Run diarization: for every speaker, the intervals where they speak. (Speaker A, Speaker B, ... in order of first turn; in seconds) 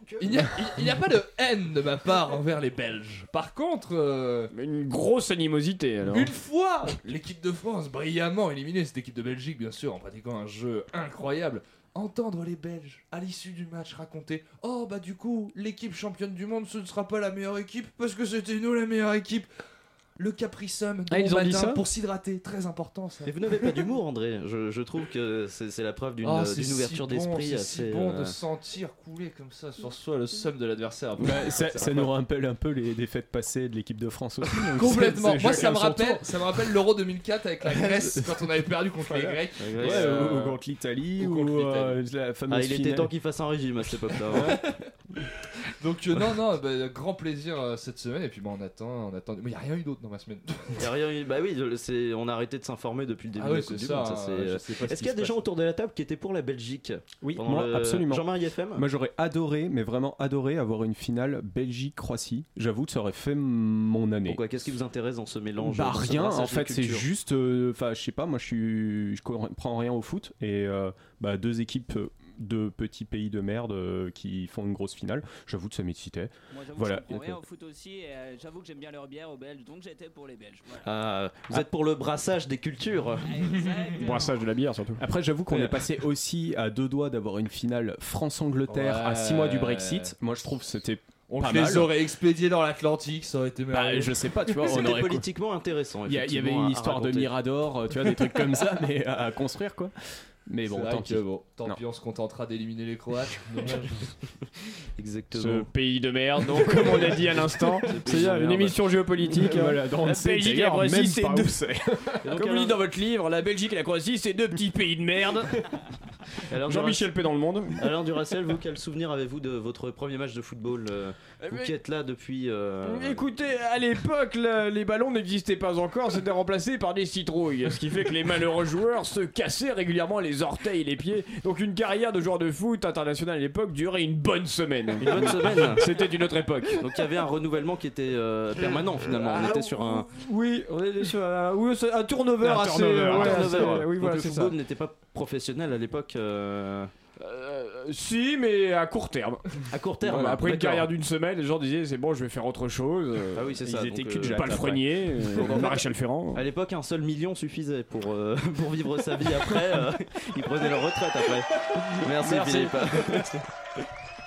Speaker A: 0.2-4.5, 6.1-19.5, 20.2-23.4, 26.2-32.1, 34.7-40.6, 41.2-42.0, 45.8-50.9, 53.4-55.5, 83.5-83.7, 88.7-90.2, 91.3-94.9, 100.7-104.0
Speaker B: 4.5-6.3, 21.1-21.8, 84.0-85.0, 105.3-111.6, 112.3-115.6, 116.7-117.8, 121.4-121.7, 122.8-136.8, 139.2-144.5, 147.2-153.6, 154.2-156.4, 161.8-163.3
Speaker C: 23.3-28.4, 39.6-40.4, 42.5-44.6, 50.8-58.9, 64.3-67.1, 80.8-83.2, 94.5-97.3, 105.0-105.7, 106.6-108.7, 112.2-112.8, 116.5-117.1, 117.8-123.2, 135.0-136.0, 136.8-140.1, 142.4-146.9, 149.7-150.9, 153.3-154.8, 155.3-163.4
Speaker D: 31.2-36.3, 39.0-43.1, 57.2-64.4, 65.6-77.4, 85.0-91.9, 93.7-95.3, 96.1-99.9, 100.5-101.8, 107.8-112.2, 142.5-143.8, 153.7-155.8
Speaker E: 76.5-80.9, 83.2-84.4